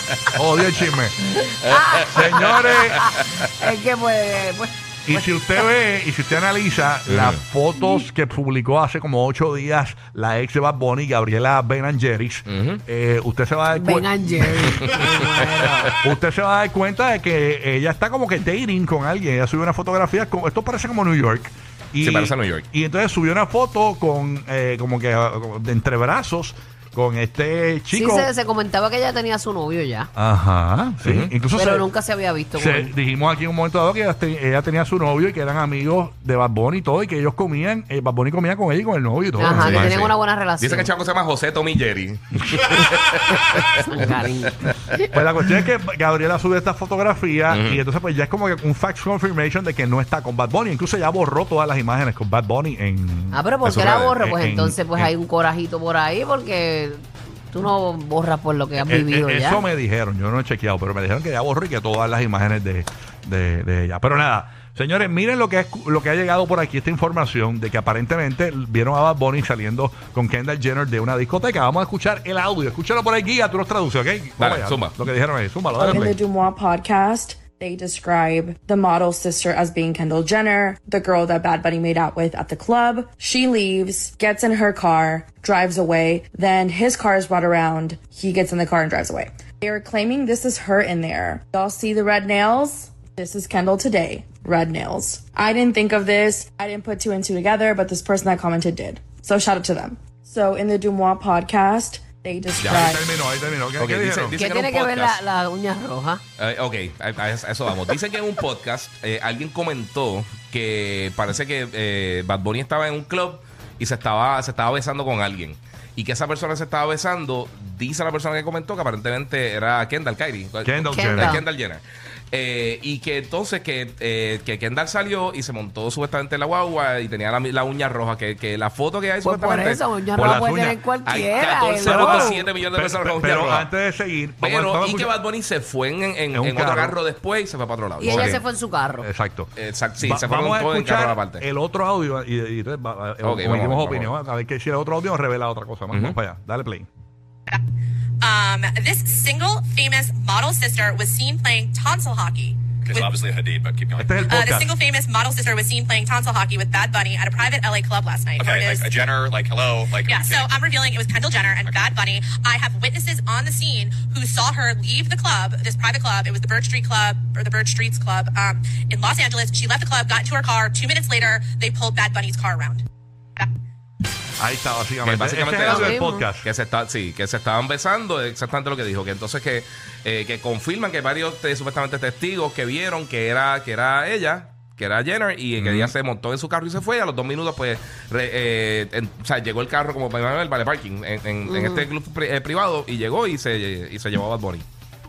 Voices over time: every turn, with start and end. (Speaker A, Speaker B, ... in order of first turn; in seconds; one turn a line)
Speaker A: 0.3-1.2
Speaker B: 1.4-5.6
Speaker A: 2.1-3.0
Speaker C: 2.2-2.9
Speaker A: 5.1-14.9
Speaker C: 7.1-7.4
Speaker C: 12.5-12.8
Speaker B: 13.7-16.0
Speaker A: 16.0-28.3
Speaker C: 22.0-22.6
Speaker B: 27.9-30.1
Speaker A: 30.1-31.9
Speaker C: 31.0-31.3
Speaker B: 31.5-32.9
Speaker A: 32.5-40.1
Speaker B: 39.4-40.9
Speaker C: 39.5-44.7
Speaker B: 43.4-44.7
Speaker A: 45.1-53.5
Speaker C: 47.5-47.8
Speaker B: 53.3-59.6
Speaker C: 53.6-54.1
Speaker A: 54.1-55.1
Speaker A: 58.8-76.2
Speaker C: 74.4-74.9
Speaker D: 75.8-103.0
Speaker A: 102.7-104.4
Speaker C: 103.8-105.2
Speaker B: 104.3-106.2
Speaker C: 106.4-129.8
Speaker A: 120.6-121.4
Speaker B: 120.9-121.4
Speaker B: 129.2-132.4
Speaker A: 130.2-130.8
Speaker C: 131.1-133.7
Speaker A: 131.8-135.1
Speaker C: 134.4-138.4
Speaker A: 136.3-137.0
Speaker B: 138.0-139.1
Speaker A: 138.1-138.4
Speaker A: 139.0-146.9
Speaker C: 139.6-141.4
Speaker C: 143.2-144.1
Speaker E: 148.2-153.2
Speaker F: 152.9-154.1
Speaker A: 154.0-154.7
Speaker E: 154.2-159.0
Speaker F: 158.4-160.4
Speaker E: 159.9-172.8
Speaker A: 174.4-176.5
Speaker C: 175.0-194.6
Speaker B: 175.6-176.2
Speaker A: 185.6-185.9
Speaker B: 191.4-191.9